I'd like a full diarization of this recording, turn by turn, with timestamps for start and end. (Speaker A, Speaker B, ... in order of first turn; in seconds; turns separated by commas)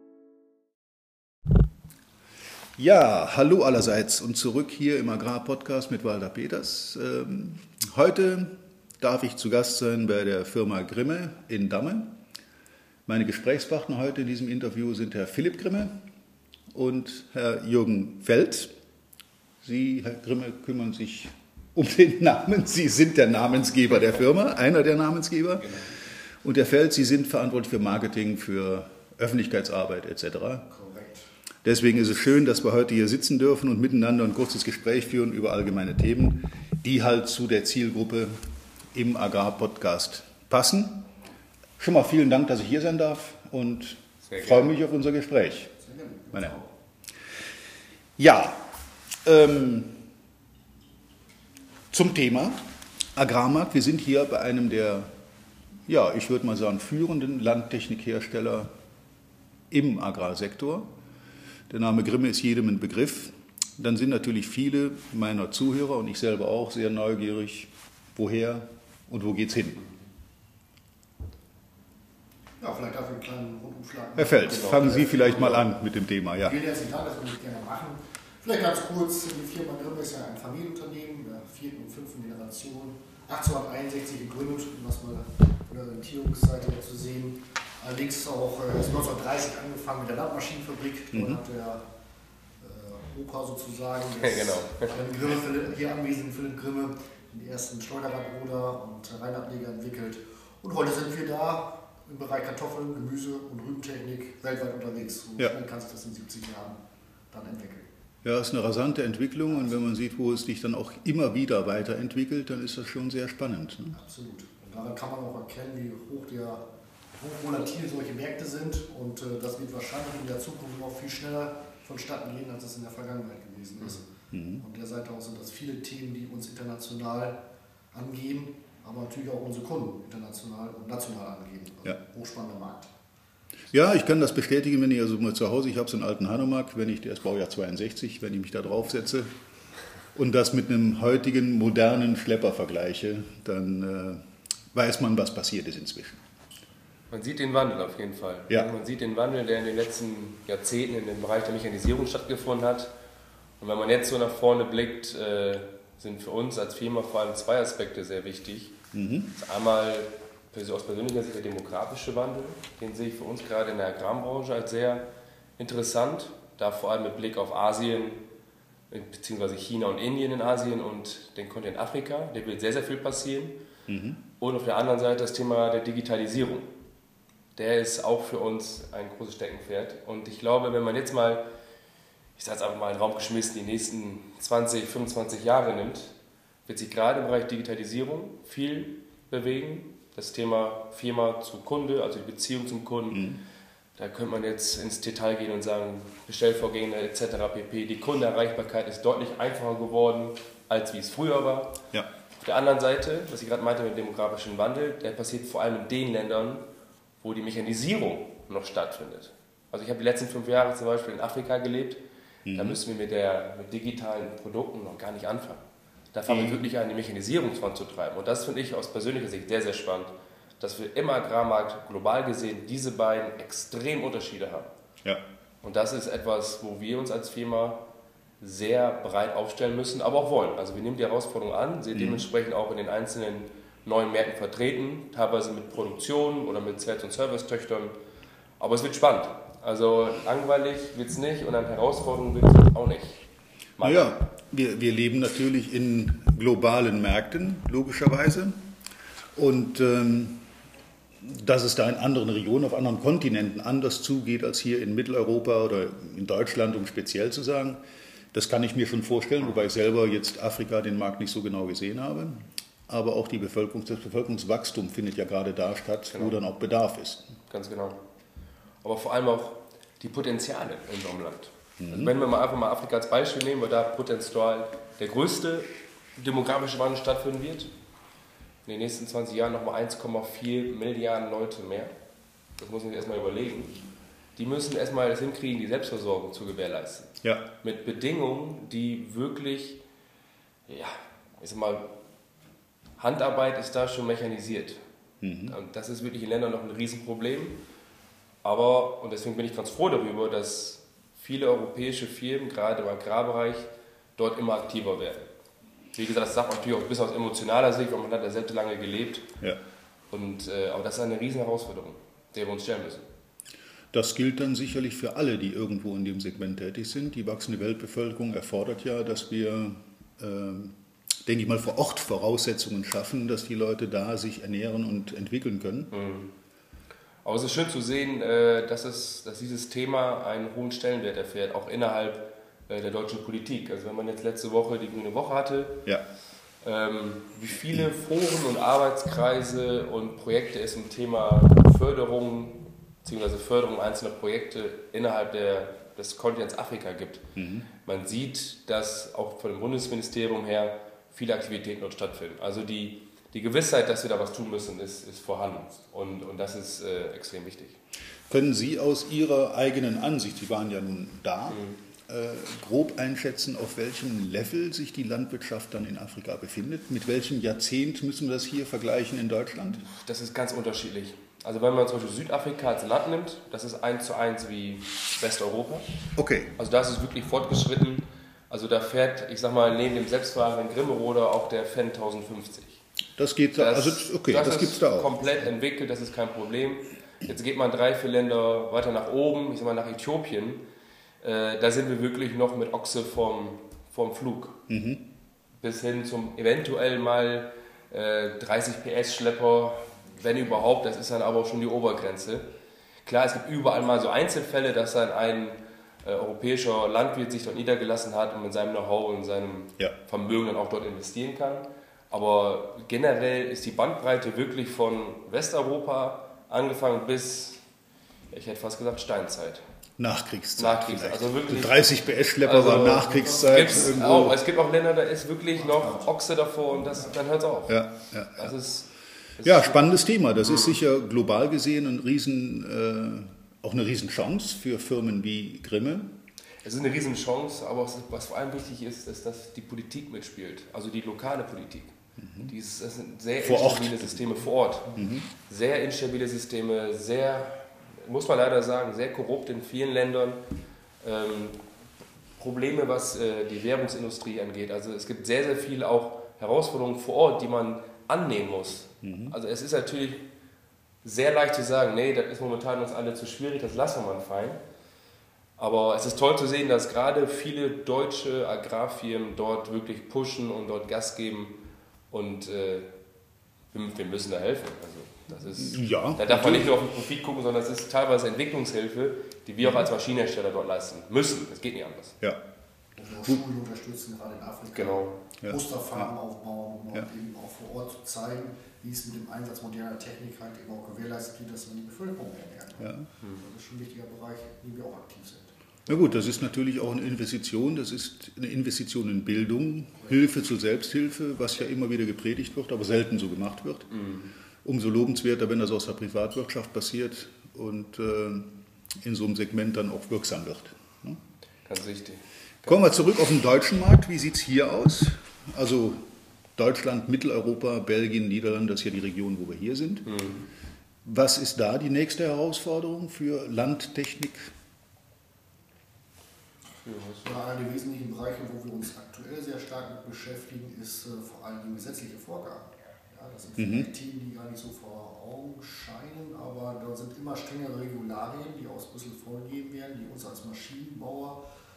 Speaker A: 2.8-12.2, Speaker A: 13.1-16.0, Speaker A: 16.7-18.7, Speaker A: 19.6-25.9, Speaker A: 26.4-30.7, Speaker B: 30.7-31.2, Speaker A: 31.6-38.3, Speaker A: 38.9-41.1, Speaker A: 41.8-45.7, Speaker C: 44.2-44.7, Speaker B: 45.8-46.7, Speaker A: 48.2-48.7, Speaker A: 49.2-50.0, Speaker A: 51.9-52.6, Speaker A: 53.2-55.1, Speaker A: 55.9-58.7, Speaker A: 59.7-60.9, Speaker A: 61.7-69.8, Speaker B: 72.6-75.5, Speaker A: 74.2-76.6, Speaker C: 74.4-75.7, Speaker B: 76.4-91.8, Speaker A: 91.1-91.4, Speaker B: 92.6-106.8, Speaker C: 94.2-94.9, Speaker B: 107.3-107.9, Speaker A: 108.2-114.0, Speaker B: 109.5-109.8, Speaker B: 113.9-116.6, Speaker B: 117.2-124.1, Speaker A: 124.3-124.6, Speaker B: 124.6-127.3, Speaker B: 127.9-132.9, Speaker A: 133.7-139.3, Speaker A: 140.1-144.2, Speaker A: 144.7-146.2, Speaker C: 147.1-152.9, Speaker C: 153.6-158.8, Speaker A: 158.9-159.3, Speaker C: 159.3-165.1, Speaker C: 165.6-168.2, Speaker C: 168.9-173.6, Speaker A: 173.9-174.2, Speaker C: 174.4-176.7, Speaker C: 177.5-181.4, Speaker C: 182.3-186.1, Speaker C: 186.6-193.2, Speaker A: 193.1-193.4, Speaker C: 194.0-201.8, Speaker C: 202.4-206.6, Speaker C: 207.2-212.0, Speaker A: 212.4-212.8, Speaker C: 212.5-215.6, Speaker C: 216.1-224.7, Speaker A: 216.3-216.6, Speaker C: 225.6-227.8, Speaker C: 228.4-237.9, Speaker A: 231.9-232.2, Speaker C: 238.6-243.2, Speaker C: 243.8-244.2, Speaker A: 243.8-248.7, Speaker A: 249.3-250.5, Speaker A: 251.2-267.3, Speaker C: 266.1-266.4, Speaker C: 267.5-268.0, Speaker C: 268.8-277.7, Speaker A: 271.8-272.1, Speaker C: 278.6-281.9, Speaker C: 282.6-283.8, Speaker C: 284.4-289.8, Speaker A: 287.2-287.5, Speaker C: 290.7-291.9, Speaker C: 293.0-294.8, Speaker A: 295.2-295.6, Speaker C: 295.5-297.6, Speaker C: 298.4-305.3, Speaker C: 305.9-309.3, Speaker C: 310.1-313.1, Speaker A: 313.9-325.9, Speaker C: 325.9-326.3, Speaker C: 327.2-335.9, Speaker C: 336.6-347.2, Speaker A: 347.4-347.7, Speaker C: 347.8-357.8, Speaker A: 358.3-369.8, Speaker C: 361.5-361.8, Speaker C: 369.8-375.9, Speaker A: 376.2-376.5, Speaker C: 376.6-382.8, Speaker A: 383.2-385.1, Speaker C: 383.6-390.6, Speaker C: 391.2-394.6, Speaker A: 394.7-395.1, Speaker C: 395.6-402.5, Speaker C: 403.0-417.6, Speaker C: 418.3-419.6, Speaker A: 420.0-424.4, Speaker C: 420.6-427.8, Speaker B: 422.9-423.9, Speaker B: 425.6-426.1, Speaker A: 427.7-428.5, Speaker C: 428.4-429.9, Speaker A: 429.4-436.1, Speaker C: 430.5-430.7, Speaker C: 436.6-441.9, Speaker A: 442.2-442.5, Speaker C: 442.4-450.4, Speaker A: 443.4-444.3, Speaker A: 444.9-445.3, Speaker C: 451.0-451.6, Speaker C: 452.4-460.2, Speaker A: 459.0-459.4, Speaker C: 461.0-464.6, Speaker C: 465.6-471.6, Speaker C: 472.1-472.9, Speaker C: 473.7-482.2, Speaker A: 475.5-476.8, Speaker A: 479.6-479.9, Speaker B: 483.0-495.9, Speaker C: 484.7-485.2, Speaker A: 485.4-486.1, Speaker A: 492.8-493.1, Speaker A: 495.9-503.9, Speaker C: 503.9-504.3, Speaker A: 504.6-511.2, Speaker C: 511.6-512.8, Speaker A: 512.6-516.0, Speaker A: 516.6-520.1, Speaker C: 520.1-520.5, Speaker A: 521.0-524.5, Speaker C: 526.9-527.4, Speaker B: 527.2-541.4, Speaker A: 533.6-533.9